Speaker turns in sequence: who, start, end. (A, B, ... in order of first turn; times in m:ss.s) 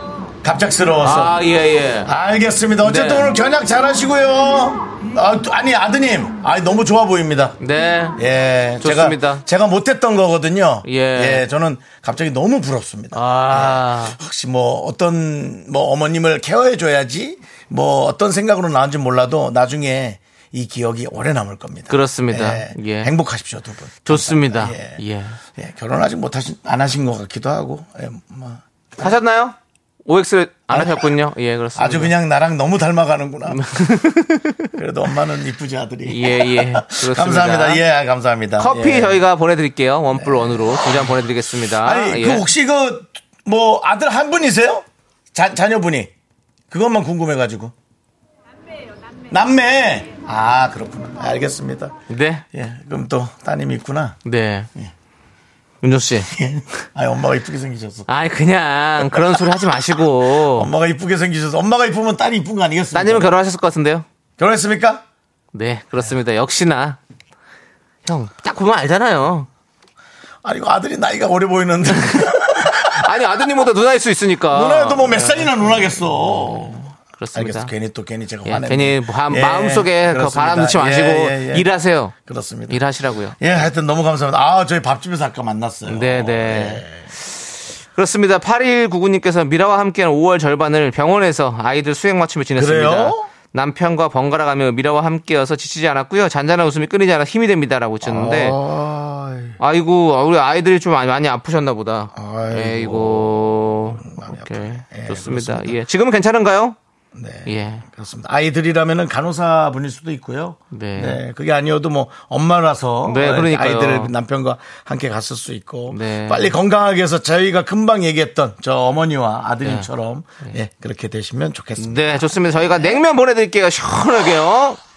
0:00.4-0:01.4 A
0:01.0-0:02.1 B
0:02.0-0:07.6 A
0:02.8-0:03.3 B
0:07.6-0:08.2 B
0:08.2-0:25.0 A
0:08.8-0:09.4 B
0:10.9-0:11.4 B
0:13.1-0:14.2 B
0:21.9-0:23.1 B
0:24.0-0:25.4 B
0:25.6-0:28.6 A
0:29.0-0:32.1 B
0:30.7-0:31.2 A
0:31.8-0:33.6 A
0:33.5-0:34.7 B
0:34.7-0:39.2 A
0:36.1-0:37.8 B
0:38.6-0:42.4 B
0:40.2-0:46.1 A
0:46.7-0:47.7 A
0:49.3-0:51.9 A
0:52.1-0:52.4 B
0:52.5-0:54.2 A
0:54.2-0:54.7 B
0:55.8-0:56.3 B
0:56.3-0:58.1 A
0:58.1-1:00.7 B
0:59.0-0:59.4 A
1:00.4-1:03.4 A
1:02.9-1:04.0 B
1:04.4-1:05.0 A
1:05.5-1:07.0 B
1:08.1-1:09.5 B
1:10.4-1:13.1 A
1:11.9-1:15.8 B
1:14.5-1:22.8 A
1:16.5-1:17.7 B
1:18.4-1:22.1 B
1:22.7-1:23.4 B
1:23.4-1:27.1 A
1:25.9-1:26.8 B
1:27.9-1:38.6 B
1:32.6-1:33.3 A
1:38.0-1:39.6 A
1:39.6-1:46.8 B
1:42.1-1:43.4 A
1:44.0-1:45.8 A
1:47.1-2:03.0 A
1:47.4-1:47.8 B
1:50.7-1:51.2 B
1:53.1-1:54.1 B
1:55.9-1:56.6 B
1:59.6-1:59.9 B
2:01.8-2:04.8 B